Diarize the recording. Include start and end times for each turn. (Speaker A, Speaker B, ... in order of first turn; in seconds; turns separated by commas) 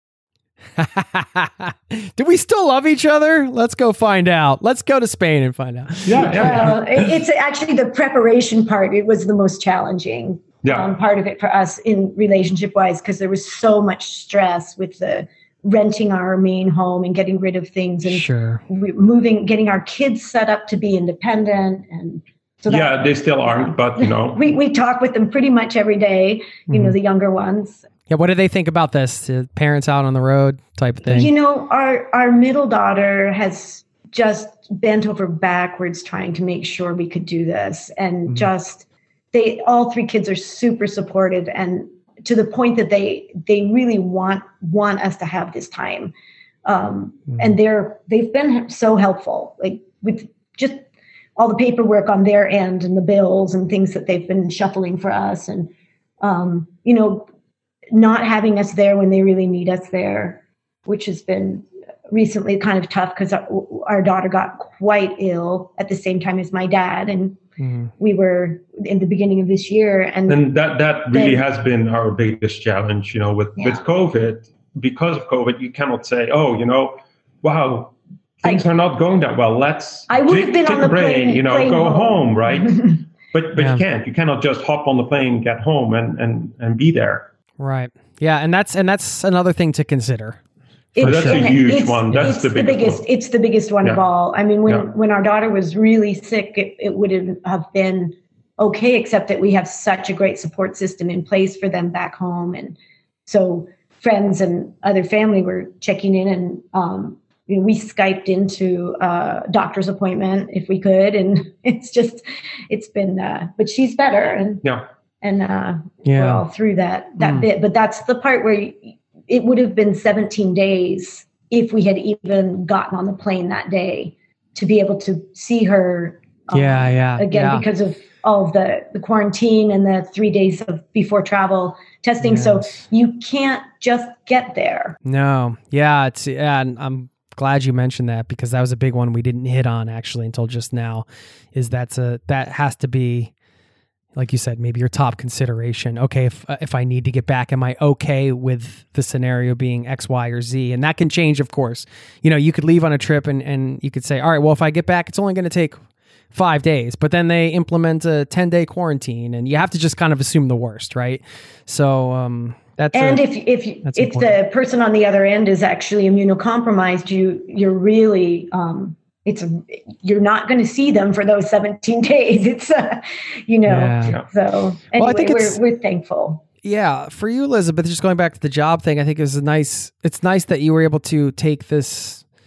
Speaker A: 0.8-7.1, Speaker B: 6.0-6.8, Speaker C: 6.2-27.8, Speaker B: 10.6-10.9, Speaker A: 18.1-18.6, Speaker B: 22.7-24.4, Speaker A: 26.7-26.9, Speaker A: 28.1-31.3, Speaker C: 31.1-46.1, Speaker C: 46.6-50.8, Speaker C: 51.4-57.3, Speaker C: 57.9-67.4, Speaker A: 67.6-67.9, Speaker C: 68.0-70.4, Speaker B: 70.3-87.3, Speaker C: 71.1-71.4, Speaker C: 80.1-83.0, Speaker A: 83.6-83.8, Speaker A: 87.6-90.4, Speaker C: 90.9-102.8, Speaker A: 91.0-91.5, Speaker B: 91.0-93.0, Speaker C: 103.3-114.6, Speaker C: 115.2-135.0, Speaker A: 116.0-116.4, Speaker A: 117.2-117.5, Speaker A: 126.5-127.6, Speaker A: 132.2-132.6, Speaker A: 135.0-143.3, Speaker A: 144.1-155.8, Speaker A: 156.3-163.2, Speaker C: 162.9-176.4, Speaker A: 163.8-164.3, Speaker A: 173.7-174.2, Speaker A: 175.0-175.6, Speaker A: 176.6-182.2